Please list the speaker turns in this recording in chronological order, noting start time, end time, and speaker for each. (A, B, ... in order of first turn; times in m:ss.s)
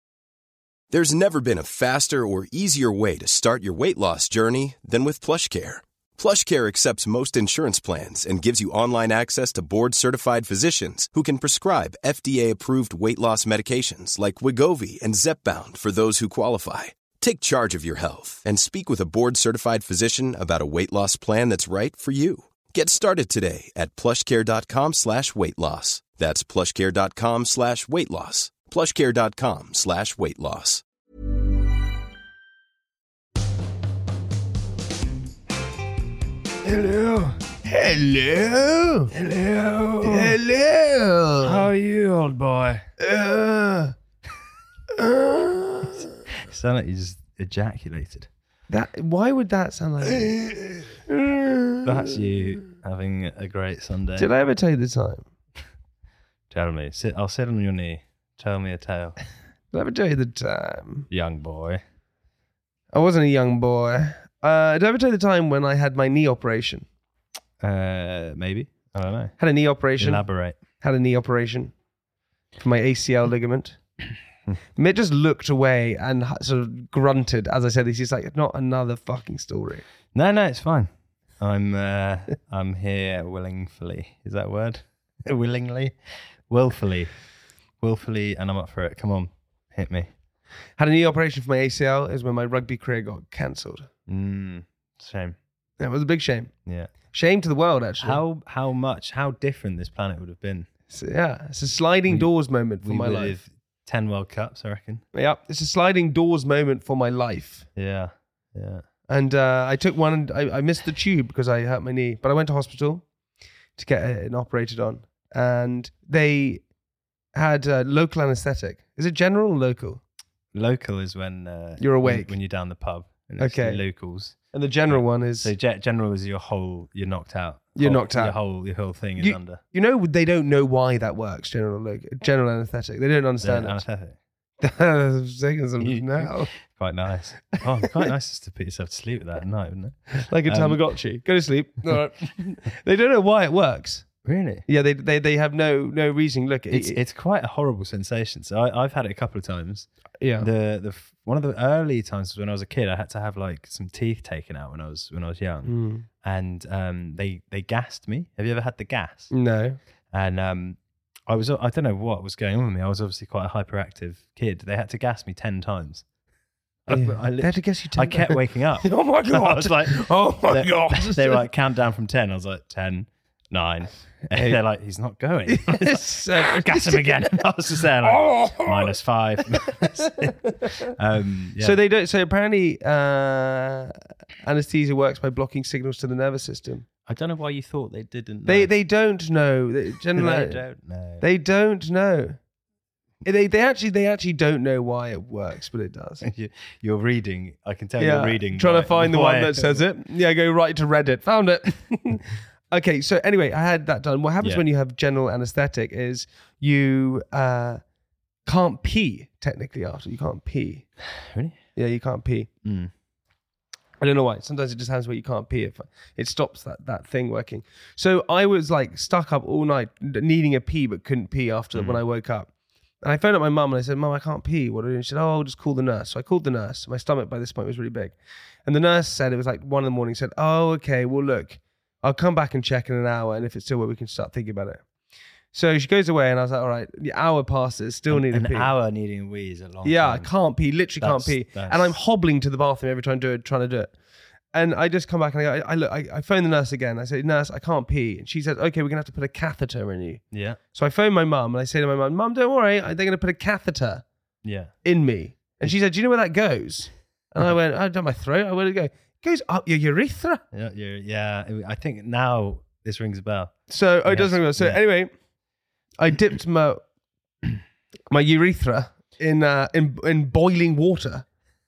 0:00.9-0:30.8 A
0:36.6-0:39.1 B
0:39.1-0:40.4 C
0:40.0-0:41.7 B
0:41.4-0:42.9 C
0:43.0-0:43.9 B
0:45.0-0:45.9 B
0:46.0-0:48.3 C
0:48.7-0:50.6 B
0:51.1-0:51.9 B
0:51.8-0:54.3 C
0:54.2-0:55.2 B
0:56.5-0:59.2 C
0:59.7-1:01.1 B
1:01.1-1:01.8 C
1:02.9-1:06.8 B
1:07.6-1:09.4 C
1:09.4-1:10.3 B
1:10.0-1:10.6 C
1:10.8-1:11.7 B
1:12.6-1:13.8 B
1:14.8-1:19.8 B
1:20.1-1:25.9 C
1:26.5-1:27.1 C
1:27.8-1:30.1 C
1:30.8-1:33.9 B
1:34.1-1:35.4 C
1:35.8-1:36.5 B
1:36.6-1:36.9 C
1:37.1-1:38.2 B
1:38.0-1:40.7 C
1:40.9-1:43.4 B
1:42.1-1:45.0 C
1:45.1-1:47.7 B
1:47.7-1:48.8 C
1:49.1-1:53.0 B
1:53.8-1:56.6 B
1:57.3-2:00.0 B
2:00.5-2:04.4 C
2:01.8-2:02.3 B
2:03.4-2:03.8 B
2:04.5-2:05.5 B
2:04.9-2:09.6 C
2:07.8-2:08.4 B
2:09.2-2:13.8 B
2:13.4-2:14.2 C
2:14.6-2:16.5 B
2:15.8-2:20.8 C
2:20.3-2:24.0 B
2:24.2-2:24.6 C
2:24.7-2:27.0 B
2:26.7-2:29.9 C
2:30.2-2:30.5 B
2:30.4-2:39.3 C
2:35.6-2:36.0 B
2:39.3-2:39.8 B
2:40.1-2:46.0 C
2:46.8-3:01.8 C
2:46.9-2:51.4 B
2:54.3-2:54.6 B
2:55.5-2:57.4 B
2:58.0-2:58.9 B
3:01.6-3:06.8 B
3:07.0-3:08.7 C
3:08.4-3:10.6 B
3:10.1-3:11.2 C
3:11.2-3:12.4 B
3:13.2-3:16.2 B
3:16.2-3:19.8 C
3:18.0-3:27.8 B
3:28.4-3:30.8 B
3:31.0-3:31.6 C
3:31.8-3:32.5 B
3:32.6-3:32.9 C
3:34.0-3:42.5 B
3:41.7-3:42.0 C
3:43.0-3:54.8 B
3:55.5-3:58.7 B
3:58.1-4:00.3 C
3:59.8-4:03.9 B
4:01.0-4:02.0 C
4:04.5-4:10.2 B
4:10.3-4:10.6 C
4:10.7-4:14.0 B
4:14.4-4:14.7 C
4:14.8-4:20.4 B
4:20.5-4:24.8 C
4:23.7-4:25.1 B
4:26.0-4:26.8 B
4:28.1-4:31.2 B